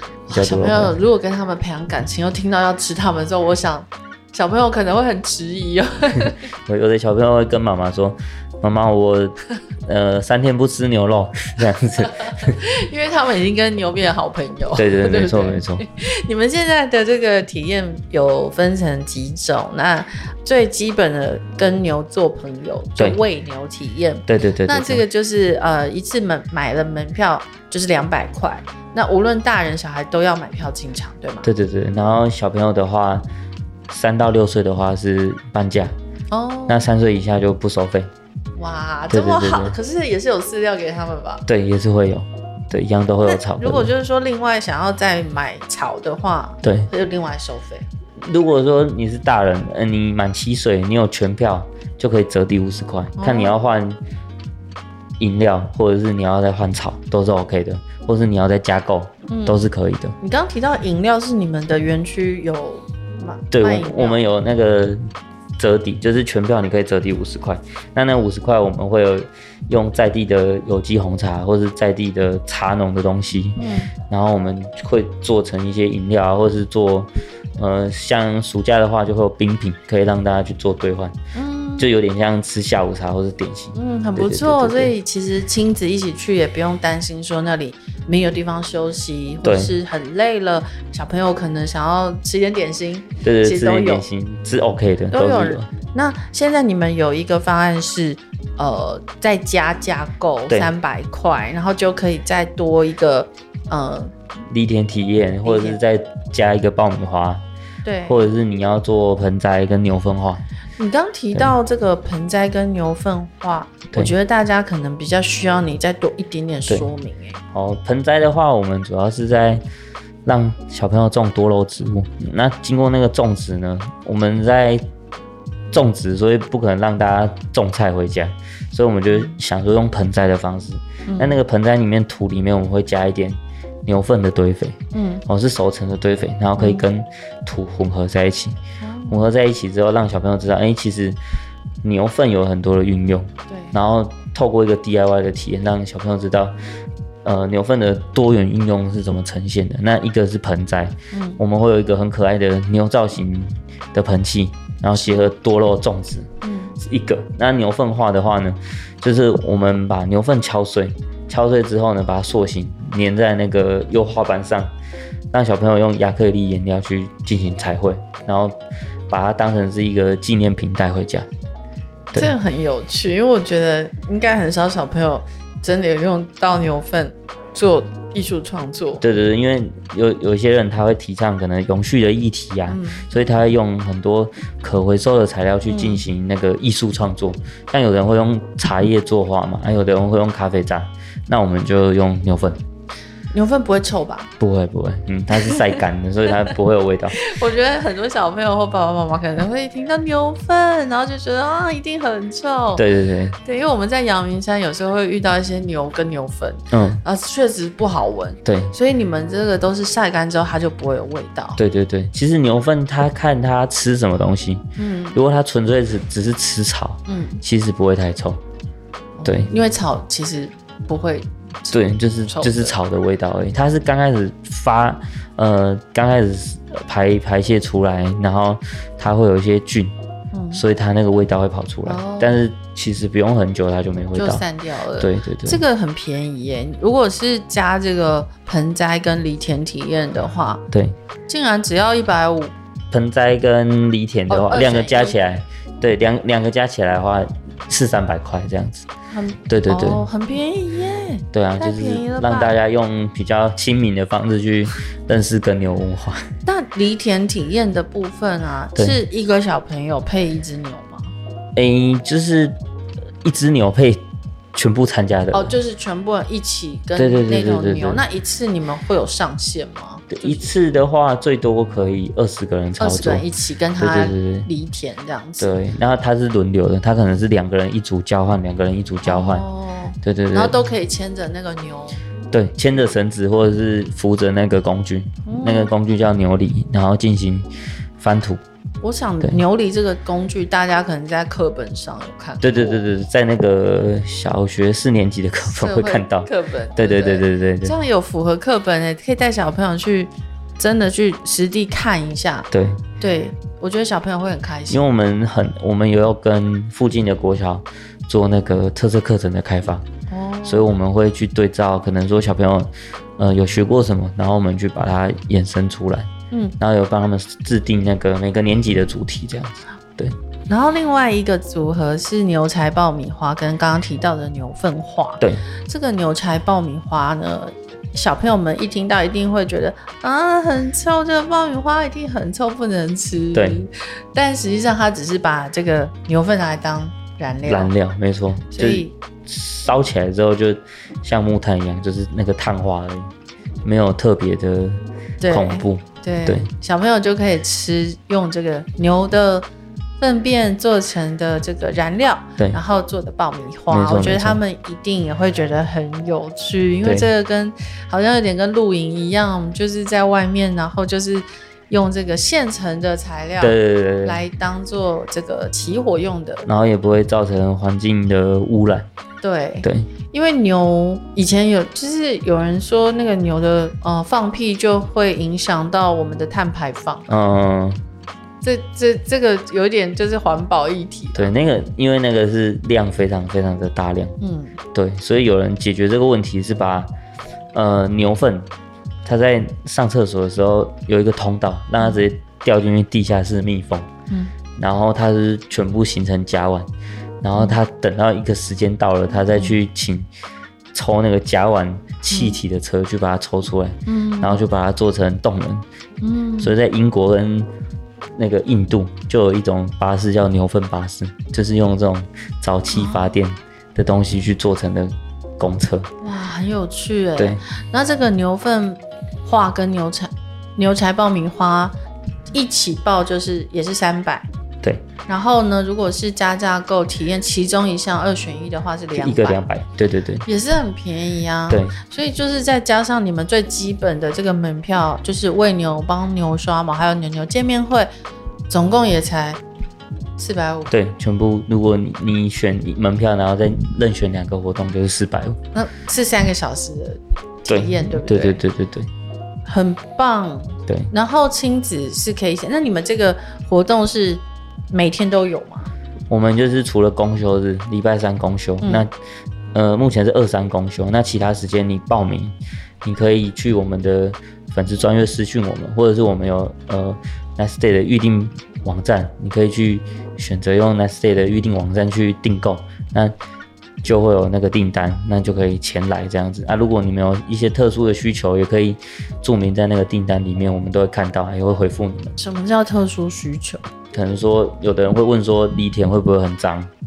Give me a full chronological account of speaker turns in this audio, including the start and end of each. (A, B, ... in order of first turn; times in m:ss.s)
0:00.3-0:06.4 A
0:00.3-0:01.0 B
0:06.3-0:12.6 B
0:12.0-0:31.5 A
0:14.8-0:15.9 B
0:24.3-0:25.0 B
0:31.4-0:33.2 B
0:33.9-0:35.9 B
0:36.3-0:36.8 A
0:36.7-0:38.1 B
0:38.6-0:41.4 A
0:39.1-0:39.8 B
0:41.5-0:43.9 B
0:43.2-0:47.9 A
0:46.6-0:46.9 B
0:48.2-0:54.0 B
0:53.2-0:53.6 A
0:55.2-1:00.2 B
0:59.3-0:59.6 A
1:00.2-1:04.2 A
1:03.5-1:05.0 B
1:05.6-1:21.2 B
1:13.6-1:13.9 A
1:21.4-1:21.9 A
1:21.8-1:24.9 B
1:23.8-1:34.0 A
1:29.4-1:29.8 B
1:33.2-1:35.7 B
1:35.1-1:44.1 A
1:44.5-1:47.4 B
1:45.4-1:45.8 A
1:47.8-1:48.3 A
1:48.1-1:50.4 B
1:50.8-1:57.4 A
1:57.5-1:59.6 B
2:00.2-2:04.8 B
2:05.7-2:18.6 B
2:09.1-2:09.4 A
2:11.1-2:11.4 A
2:14.9-2:15.2 A
2:16.6-2:16.8 A
2:18.8-2:19.3 A
2:19.1-2:21.2 B
2:21.8-2:26.6 B
2:23.5-2:23.8 A
2:27.2-2:44.7 B
2:31.1-2:31.4 A
2:35.0-2:35.3 A
2:36.4-2:36.8 A
2:45.3-2:48.6 B
2:49.1-2:51.3 B
2:52.1-2:59.0 A
2:59.0-3:12.6 B
3:02.7-3:03.1 A
3:05.7-3:06.0 A
3:13.3-3:14.3 A
3:14.4-3:17.2 B
3:15.4-3:15.8 A
3:17.2-3:22.8 A
3:22.8-3:23.4 B
3:23.4-3:31.6 A
3:26.7-3:27.0 B
3:28.4-3:28.8 B
3:31.6-3:38.4 B
3:34.8-3:35.2 A
3:37.1-3:37.4 A
3:39.2-3:42.8 A
3:39.2-3:39.5 B
3:41.7-3:49.9 B
3:50.3-3:50.6 A
3:50.5-3:54.4 B
3:51.8-3:52.4 A
3:54.2-4:00.6 A
3:55.0-3:55.6 B
4:01.3-4:02.5 A
4:02.9-4:08.9 B
4:04.3-4:05.2 A
4:09.1-4:12.6 A
4:09.5-4:10.1 B
4:11.3-4:16.2 B
4:16.5-4:21.1 A
4:21.6-4:22.6 B
4:23.2-4:25.6 B
4:25.3-4:30.5 A
4:27.0-4:28.0 B
4:30.1-4:33.2 B
4:32.8-4:35.5 A
4:33.8-4:34.5 B
4:35.4-4:39.5 B
4:39.0-4:42.0 A
4:40.0-4:40.6 B
4:42.3-4:47.5 B
4:45.3-4:45.7 A
4:48.0-4:48.4 B
4:48.8-4:52.8 A
4:52.4-4:57.8 B
4:55.4-5:04.8 A
5:02.5-5:02.9 B
5:04.7-5:09.9 B
5:10.1-5:10.8 A
5:10.4-5:20.2 B
5:20.5-5:37.7 A
5:33.3-5:33.7 B
5:37.5-5:43.1 B
5:38.5-5:38.9 A
5:43.6-5:46.5 B
5:45.2-5:49.5 A
5:50.0-6:06.4 A
5:53.7-5:54.4 B
5:56.8-5:57.1 B
6:03.4-6:04.2 B
6:06.4-6:08.9 B
6:09.2-6:17.1 A
6:09.6-6:09.9 B
6:17.1-6:17.8 B
6:18.4-6:21.3 A
6:21.2-6:24.2 B
6:24.2-6:24.6 A
6:24.7-6:26.9 B
6:27.5-6:28.5 B
6:29.0-6:33.9 B
6:34.6-6:36.7 B
6:37.2-6:40.1 B
6:39.3-6:39.6 A
6:40.7-6:45.6 B
6:42.1-6:42.4 A
6:43.9-6:44.4 A
6:46.0-6:46.5 A
6:46.4-6:47.5 B
6:48.2-6:55.9 B
6:52.7-6:53.1 A
6:56.0-7:01.8 A
7:02.3-7:04.3 A
7:05.1-7:09.4 A
7:09.0-7:10.3 B
7:10.3-7:17.9 A
7:11.5-7:11.8 B
7:18.5-7:19.4 A
7:20.2-7:20.7 A
7:20.7-7:25.4 B
7:25.5-7:28.4 A
7:27.5-7:28.9 B
7:29.5-7:35.7 A
7:36.1-7:38.9 B
7:39.5-7:53.1 B
7:53.8-8:02.2 B
8:02.2-8:03.6 A
8:03.9-8:06.7 B